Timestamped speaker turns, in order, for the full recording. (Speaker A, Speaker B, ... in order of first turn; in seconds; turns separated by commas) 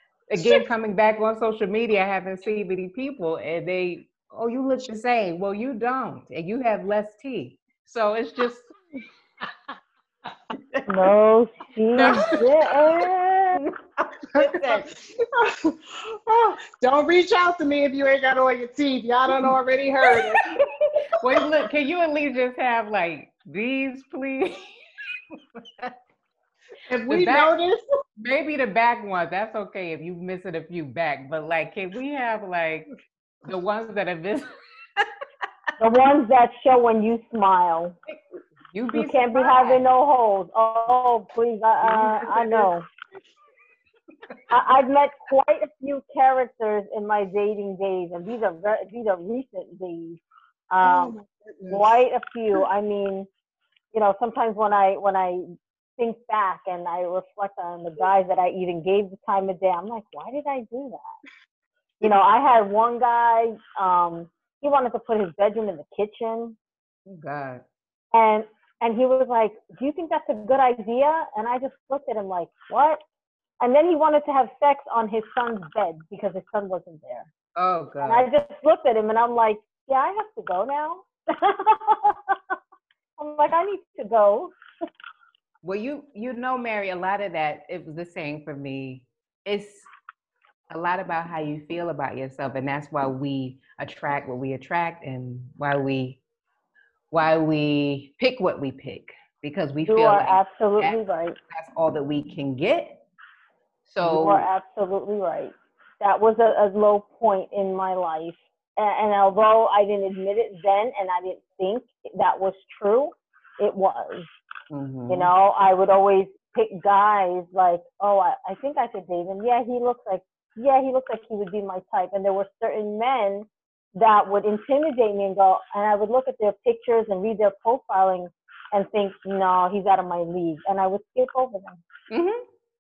Speaker A: 0.3-8.7, Speaker B: 0.3-0.7, Speaker C: 10.9-13.6, Speaker A: 11.9-12.4, Speaker B: 12.0-12.5, Speaker B: 14.3-20.6, Speaker A: 14.3-14.8, Speaker A: 21.2-24.7, Speaker A: 25.6-25.9, Speaker B: 26.9-27.8, Speaker A: 27.1-27.5, Speaker A: 28.2-32.9, Speaker A: 33.4-35.0, Speaker C: 35.8-38.0, Speaker A: 38.7-39.9, Speaker C: 38.9-42.8, Speaker A: 41.8-42.6, Speaker C: 44.5-50.2, Speaker C: 50.7-51.1, Speaker B: 50.8-52.0, Speaker C: 51.7-53.3, Speaker C: 53.9-61.1, Speaker C: 62.0-66.6, Speaker A: 67.0-67.6, Speaker C: 68.1-73.0, Speaker C: 73.6-77.3, Speaker A: 77.5-78.3, Speaker C: 78.0-82.5, Speaker C: 83.2-84.5, Speaker A: 85.6-89.9, Speaker A: 90.7-96.2, Speaker A: 97.1-101.0, Speaker C: 99.8-101.4, Speaker A: 101.5-103.0, Speaker A: 103.8-104.5, Speaker C: 104.0-114.3, Speaker A: 114.7-115.3, Speaker C: 115.1-131.8, Speaker A: 132.1-132.4